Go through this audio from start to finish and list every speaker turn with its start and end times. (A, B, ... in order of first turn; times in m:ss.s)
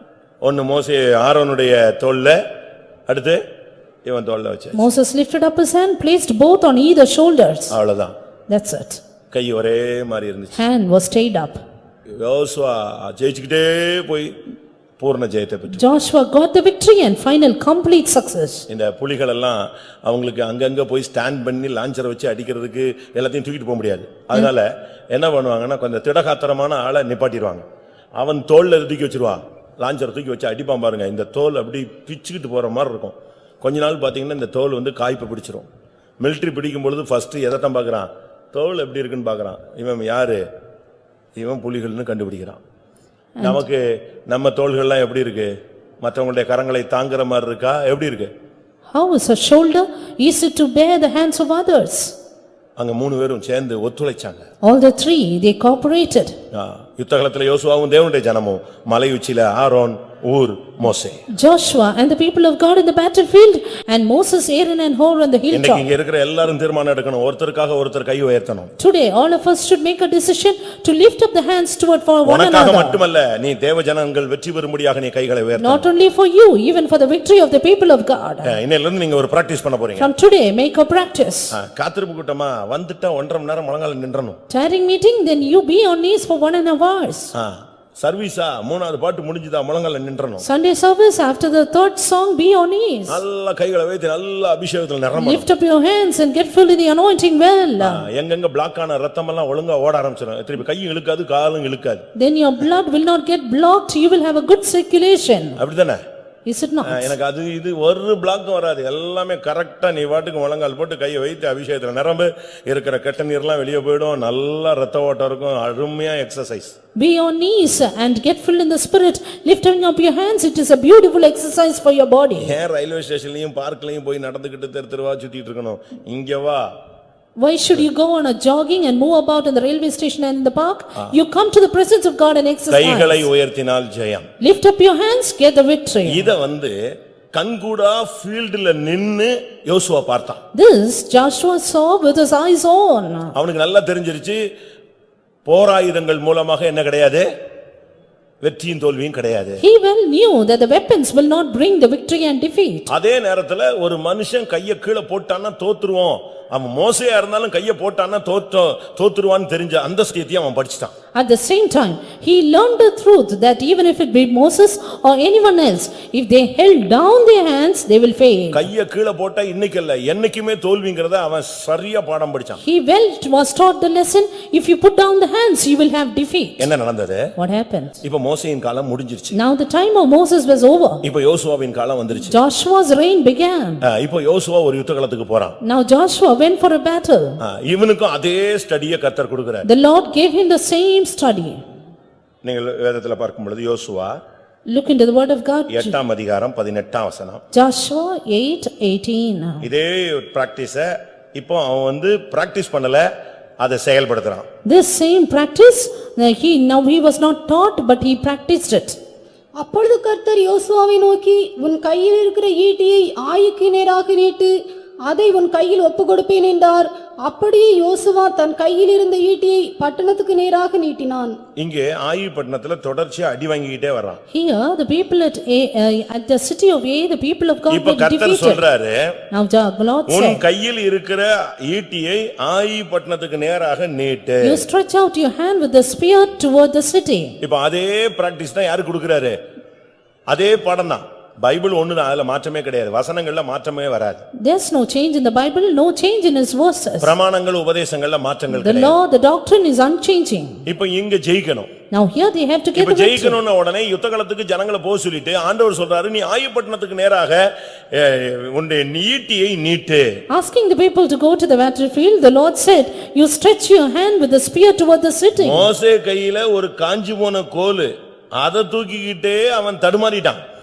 0:00.4-0:02.4 A
0:03.1-0:03.4 A
0:04.0-0:04.9 A
0:04.7-0:07.7 B
0:07.7-0:08.1 A
0:08.5-0:09.0 B
0:09.3-0:10.6 A
0:10.6-0:11.6 B
0:12.2-0:14.3 A
0:15.0-0:15.8 A
0:15.7-0:18.6 B
0:18.7-0:27.6 A
0:28.2-0:35.6 A
0:36.2-0:40.4 A
0:41.4-0:42.6 A
0:43.4-0:43.6 B
0:43.4-0:45.5 A
0:46.0-0:48.3 A
0:48.9-0:52.1 B
0:52.8-0:54.5 A
0:54.6-0:56.3 B
0:56.5-1:01.2 A
1:01.4-1:05.9 B
1:05.5-1:08.7 A
1:08.8-1:13.0 B
1:12.2-1:15.9 A
1:15.6-1:18.6 B
1:18.4-1:20.1 A
1:20.0-1:21.5 B
1:21.5-1:24.4 A
1:24.5-1:27.3 B
1:27.3-1:30.4 A
1:30.4-1:33.2 B
1:33.1-1:35.5 A
1:35.1-1:38.1 B
1:37.8-1:42.0 A
1:42.2-1:45.6 B
1:45.6-1:46.0 A
1:46.4-1:47.1 B
1:46.8-1:56.8 A
1:57.0-2:02.5 B
2:02.4-2:06.7 A
2:07.4-2:13.3 B
2:12.7-2:14.3 A
2:14.4-2:16.3 B
2:16.0-2:16.7 A
2:17.3-2:20.4 A
2:20.5-2:23.3 B
2:23.3-2:24.4 A
2:25.4-2:27.3 A
2:28.4-2:29.6 A
2:29.6-2:32.9 B
2:32.9-2:40.9 A
2:41.1-2:48.7 B
2:48.5-2:52.6 A
2:52.6-2:56.7 B
2:56.6-2:57.3 A
2:57.4-2:58.0 B
2:58.0-2:59.4 A
2:59.3-3:01.0 B
3:01.0-3:02.4 A
3:02.2-3:03.8 B
3:03.8-3:05.6 A
3:05.6-3:07.4 B
3:07.4-3:09.7 A
3:09.6-3:11.6 B
3:12.4-3:14.2 A
3:14.7-3:16.0 B
3:15.7-3:17.4 A
3:17.5-3:19.6 B
3:19.6-3:23.0 A
3:23.6-3:24.5 A
3:24.6-3:29.0 B
3:29.6-3:41.4 C
3:41.6-3:44.2 A
3:44.3-3:48.6 B
3:47.7-3:49.1 A
3:49.3-3:50.4 B
3:50.1-3:54.6 A
3:54.4-3:57.4 B
3:57.4-3:59.4 A
4:00.3-4:04.2 A
4:04.4-4:07.1 B
4:07.0-4:09.0 A
4:08.5-4:10.6 B
4:10.6-4:11.7 A
4:11.9-4:13.4 B
4:12.8-4:20.2 A
4:20.3-4:25.7 B
4:25.4-4:30.4 A